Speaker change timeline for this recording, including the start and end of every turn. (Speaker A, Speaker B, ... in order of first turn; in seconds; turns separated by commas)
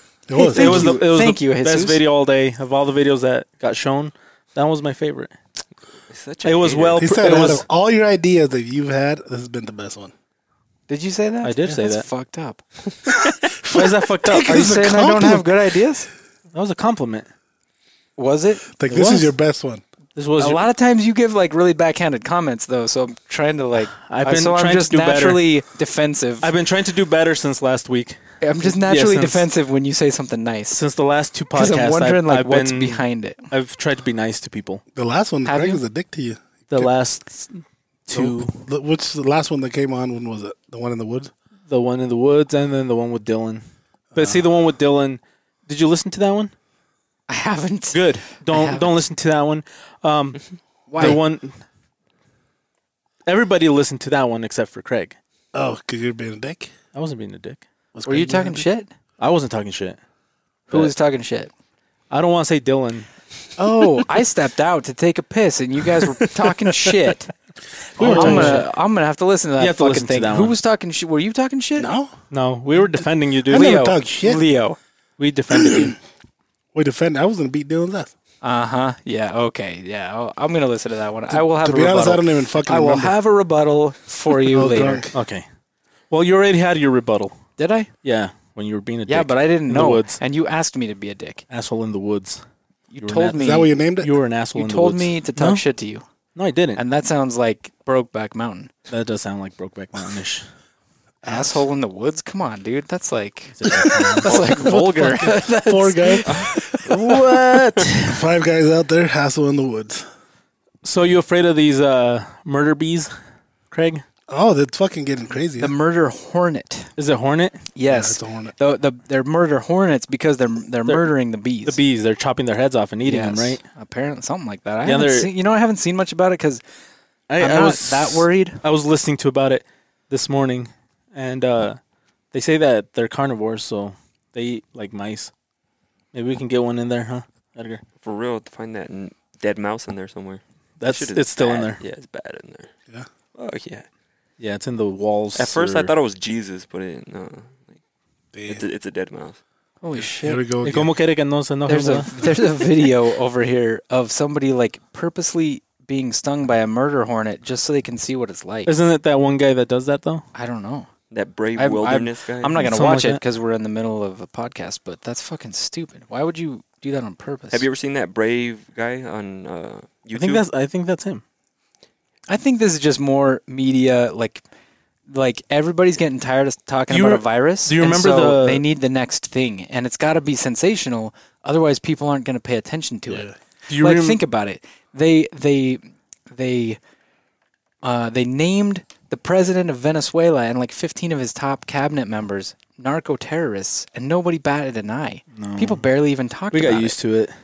Speaker A: 0.3-1.0, Speaker B: 0.3-2.0, Speaker C: 0.5-5.3, Speaker D: 6.1-7.0, Speaker C: 6.4-7.7, Speaker A: 7.0-10.1, Speaker B: 10.9-12.6, Speaker C: 11.4-12.1, Speaker A: 13.2-15.5, Speaker C: 13.7-14.5, Speaker B: 14.4-16.1, Speaker C: 16.5-17.3, Speaker B: 18.2-18.8, Speaker A: 18.7-19.8, Speaker C: 18.9-19.3, Speaker C: 20.1-20.6, Speaker B: 20.4-26.5, Speaker C: 24.0-25.4, Speaker C: 26.4-29.5, Speaker B: 28.4-30.8, Speaker C: 30.7-34.8, Speaker B: 31.5-33.5, Speaker A: 35.0-36.9, Speaker B: 35.5-35.8, Speaker C: 36.7-38.7, Speaker A: 38.1-41.3, Speaker C: 41.7-43.6, Speaker A: 44.1-44.4, Speaker C: 44.1-46.5, Speaker B: 47.3-48.9, Speaker C: 47.9-51.6, Speaker B: 50.9-51.2, Speaker C: 53.3-55.2, Speaker A: 55.5-56.7, Speaker C: 56.9-57.6, Speaker A: 57.9-58.6, Speaker B: 58.1-58.9, Speaker C: 59.2-60.0, Speaker B: 60.7-61.5, Speaker C: 62.1-63.1, Speaker B: 63.6-67.3, Speaker C: 68.0-68.7, Speaker A: 68.0-68.6, Speaker B: 68.0-71.9, Speaker C: 69.6-70.6, Speaker A: 71.8-72.1, Speaker C: 72.3-73.8, Speaker A: 73.0-74.4, Speaker B: 73.5-74.8, Speaker C: 75.2-76.0, Speaker A: 75.5-75.9, Speaker A: 76.7-78.1, Speaker B: 78.4-85.1, Speaker A: 81.3-83.2, Speaker A: 84.4-85.2, Speaker C: 85.1-85.5, Speaker C: 86.1-87.4, Speaker B: 87.6-87.9, Speaker C: 88.0-90.2, Speaker B: 89.1-91.4, Speaker C: 91.5-92.4, Speaker B: 92.9-93.7, Speaker C: 93.0-93.5, Speaker A: 93.3-94.1, Speaker C: 94.0-95.6, Speaker B: 94.5-96.0, Speaker C: 96.3-96.8, Speaker B: 96.8-98.7, Speaker C: 98.9-100.5, Speaker B: 101.2-106.9, Speaker C: 103.5-104.4, Speaker A: 104.3-107.2, Speaker C: 106.8-108.2, Speaker A: 108.0-110.1, Speaker C: 110.8-113.2, Speaker C: 113.7-114.0, Speaker A: 114.3-115.7, Speaker B: 115.6-116.9, Speaker C: 117.0-117.7, Speaker B: 117.8-121.8, Speaker A: 117.9-118.5, Speaker C: 121.7-123.6, Speaker B: 123.0-126.6, Speaker C: 124.8-125.3, Speaker C: 127.3-131.8, Speaker B: 127.4-128.6, Speaker C: 132.3-135.3, Speaker C: 136.1-137.8, Speaker D: 138.0-142.7, Speaker C: 140.8-141.8, Speaker D: 143.3-143.9, Speaker C: 144.4-145.9, Speaker D: 145.3-147.8, Speaker A: 148.3-148.6, Speaker D: 148.5-149.4, Speaker B: 149.8-150.4, Speaker A: 150.0-150.9, Speaker C: 150.6-152.1, Speaker B: 151.7-158.7, Speaker C: 158.7-160.3, Speaker B: 160.3-160.9, Speaker D: 161.1-162.7, Speaker B: 161.6-167.7, Speaker C: 162.6-163.2, Speaker D: 167.5-170.5, Speaker C: 170.1-171.2, Speaker B: 172.3-174.4, Speaker B: 175.1-186.8, Speaker C: 176.9-178.6, Speaker A: 183.1-183.4, Speaker C: 183.7-184.2, Speaker B: 187.8-197.0, Speaker C: 195.3-195.8, Speaker C: 196.5-197.4